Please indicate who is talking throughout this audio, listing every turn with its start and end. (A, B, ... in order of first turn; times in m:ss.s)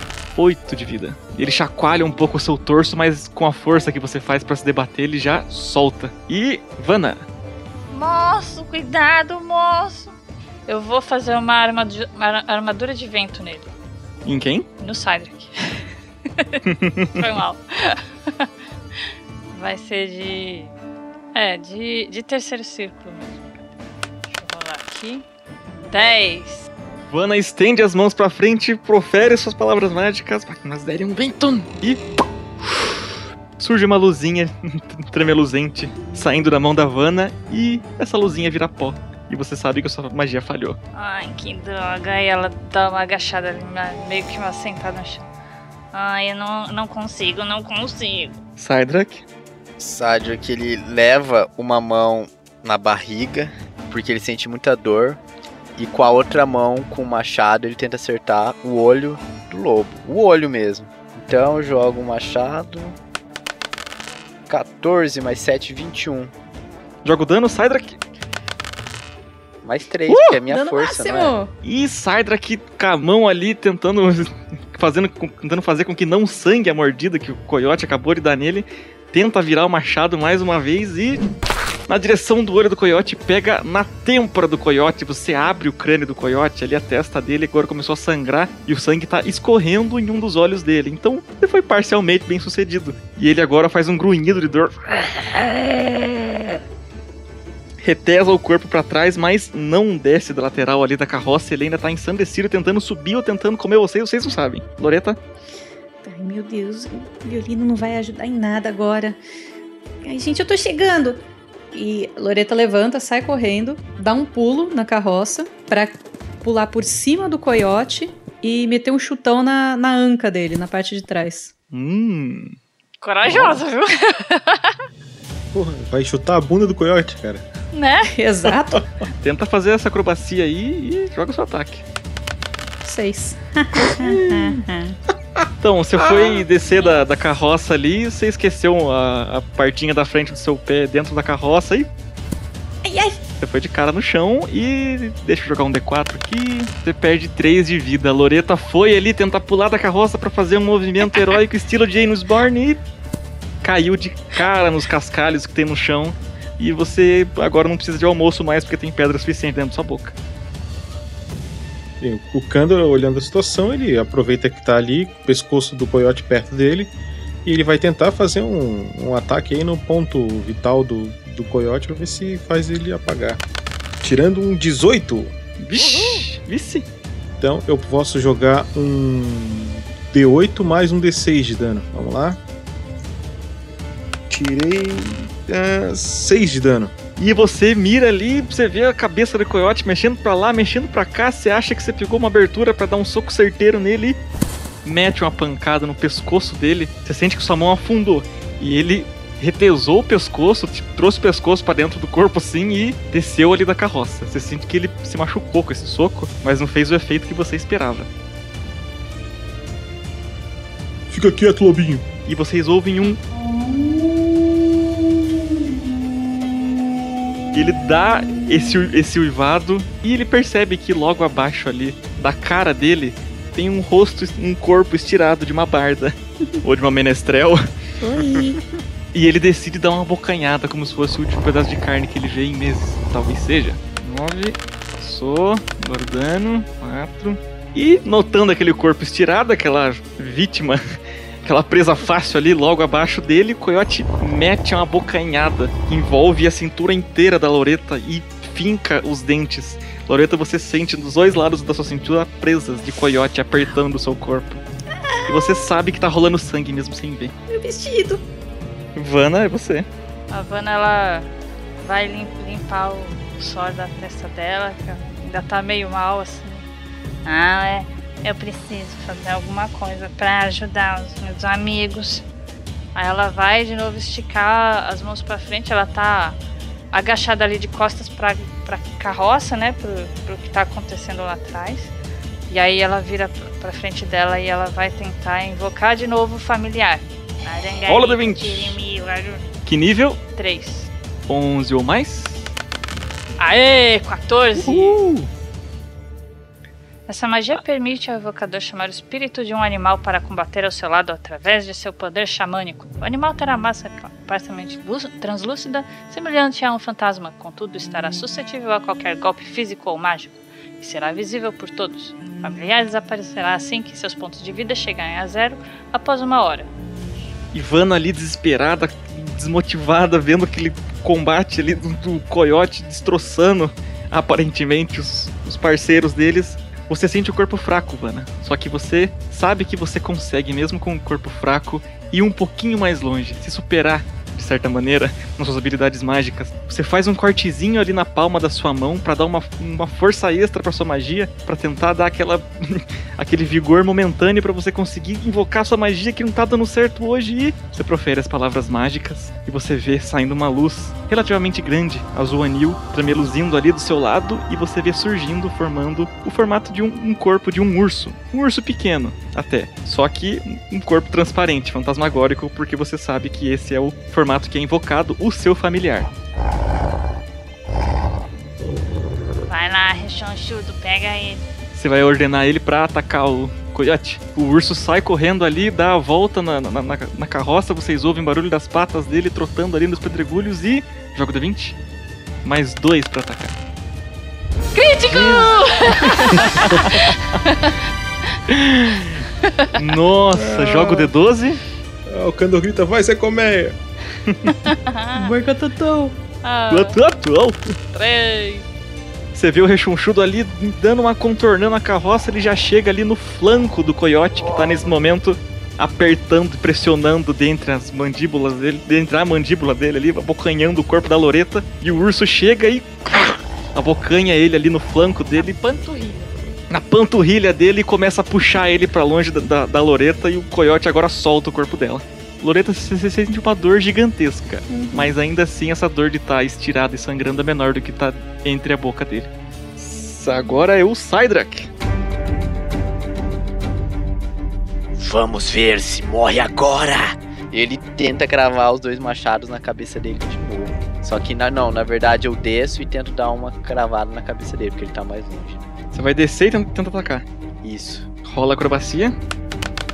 0:00.4-0:07.2 A
0:07.9-0:10.1 B
0:10.6-0:13.7 B
0:14.2-0:14.7 A
0:14.8-0:16.6 B
0:16.6-0:17.2 A
0:17.2-0:18.5 B
0:19.5-0:20.7 B
0:21.3-0:23.6 B
0:24.3-0:25.2 B
0:25.8-0:26.7 B
0:27.1-0:32.0 A
0:32.6-0:33.0 A
0:33.6-0:40.8 A
0:40.9-0:45.3 B
0:45.9-0:48.4 B
0:48.6-0:49.2 A
0:49.8-0:55.2 C
0:55.8-1:03.0 C
1:04.5-1:06.3 C
1:07.0-1:08.0 A
1:09.6-1:11.4 C
1:10.1-1:10.4 A
1:10.5-1:11.5 D
1:11.6-1:21.2 A
1:21.9-1:36.5 A
1:37.8-1:45.2 A
1:46.0-1:49.2 D
1:50.0-2:01.5 D
2:01.7-2:02.6 A
2:03.0-2:04.8 B
2:03.2-2:03.6 A
2:05.5-2:07.4 E
2:07.7-2:08.1 B
2:08.1-2:08.8 D
2:09.2-2:11.8 A
2:12.8-2:15.0 D
2:14.0-2:14.6 A
2:15.6-2:21.9 A
2:16.7-2:17.0 B
2:22.8-2:23.2 D
2:23.4-2:32.8 A
2:33.6-2:40.2 A
2:42.0-2:46.9 E
2:47.4-2:53.4 E
2:54.0-2:55.3 E
2:55.6-2:56.9 A
2:57.4-3:02.4 E
3:04.3-3:06.9 E
3:07.2-3:14.2 A
3:14.8-3:28.1 A
3:31.1-3:32.0 E
3:32.3-3:33.2 A
3:33.5-3:34.4 D
3:37.5-3:47.6 A
3:38.3-3:38.6 D
3:48.0-3:48.6 D
3:49.1-4:00.8 A
4:01.4-4:14.6 A
4:15.1-4:15.5 D
4:15.3-4:17.3 A
4:17.5-4:18.2 D
4:19.0-4:19.9 A
4:20.3-4:21.3 B
4:21.8-4:26.6 B
4:27.2-4:32.2 B
4:32.9-4:36.4 B
4:36.9-4:41.9 B
4:42.5-4:49.4 B
4:47.9-4:48.8 A
4:49.6-4:50.2 A
4:50.4-4:50.9 B
4:51.3-4:52.5 A
4:53.4-4:55.0 B
4:54.6-4:55.3 A
4:57.1-5:16.7 B
5:17.5-6:06.1 A
6:09.5-6:11.4 B
6:11.7-6:21.8 A
6:22.4-6:23.5 A
6:24.7-6:27.8 B
6:25.1-6:27.0 A
6:28.5-6:29.2 A
6:29.4-6:29.7 B
6:29.8-6:31.6 A
6:30.6-6:31.0 E
6:32.0-6:33.8 E
6:34.5-6:35.3 B
6:35.1-6:36.2 D
6:36.4-6:37.0 B
6:36.7-6:37.7 A
6:37.9-6:38.7 B
6:39.3-6:55.5 A
6:55.4-6:56.3 B
6:56.7-7:11.7 A
7:04.7-7:05.1 D
7:14.9-7:17.2 F
7:17.5-7:25.7 C
7:25.9-7:27.2 A
7:27.6-7:28.1 C
7:28.2-7:29.2 A